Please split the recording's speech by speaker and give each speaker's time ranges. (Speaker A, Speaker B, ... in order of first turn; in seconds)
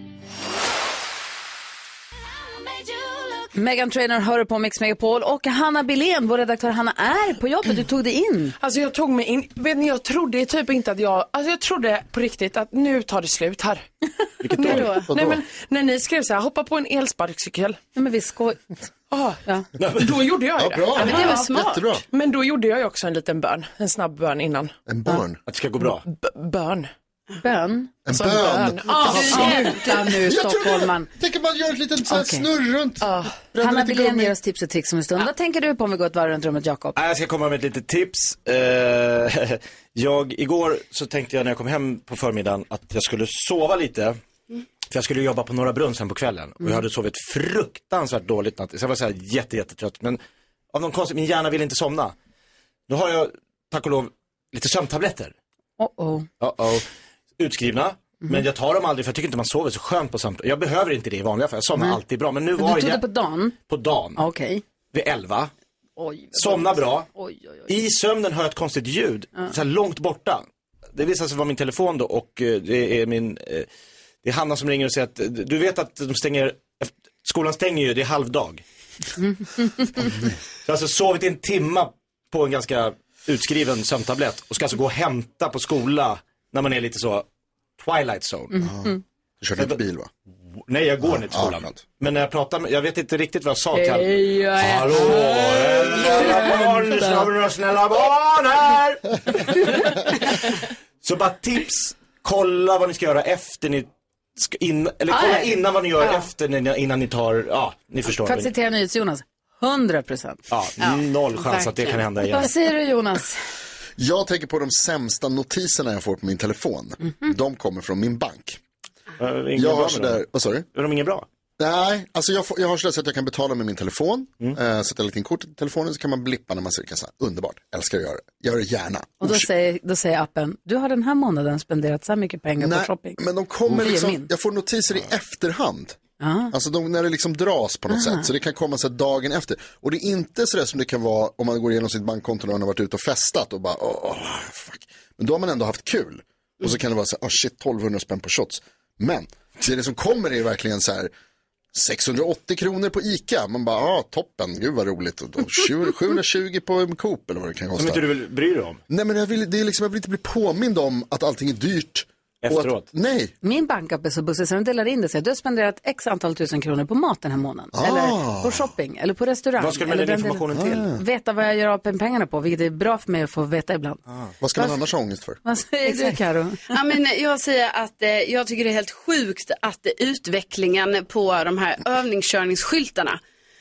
Speaker A: 3.5-8.5, 17.9-18.6, 27.4-28.0, 28.8-31.1, 32.1-32.4, 33.6-36.9, 55.8-56.3, 62.6-63.5, 64.2-64.6, 66.0-67.7, 79.6-80.0, 88.5-89.0, 93.7-97.3, 105.1-105.5, 108.1-110.4, 112.3-113.4, 117.0-117.3, 129.2-133.2, 133.7-134.3, 136.2-136.5, 137.9-138.3, 163.4-174.0, 175.4-176.7
Speaker B: 8.6-13.9, 14.7-17.8, 19.1-19.4, 19.9-21.4, 22.1-24.8, 26.1-26.9, 28.1-29.6, 33.0-33.3
Speaker C: 14.4-14.9, 19.8-20.1, 25.4-26.0, 37.0-44.2, 44.9-50.2, 50.7-52.1, 52.9-55.3, 56.4-56.9, 57.4-63.0, 63.7-64.2, 64.9-65.5, 66.3-67.1, 67.7-73.7, 74.2-78.6, 80.6-87.2, 87.8-88.5, 90.7-99.8, 101.0-108.5, 110.5-112.5, 119.2-120.2, 120.7-121.2, 157.8-158.8, 162.4-162.8, 169.6-170.8
Speaker D: 14.6-15.1, 20.9-22.0, 29.0-29.7, 110.8-112.0, 175.8-176.1, 176.7-183.2
Speaker E: 14.7-15.4, 20.6-22.0, 24.9-25.4, 28.1-34.3, 88.6-90.1, 91.0-91.8, 114.0-118.6, 119.5-120.7, 121.6-129.5, 132.6-136.0, 136.5-151.1, 151.7-158.0, 158.9-163.3, 167.7-168.7, 170.5-171.0, 174.4-175.4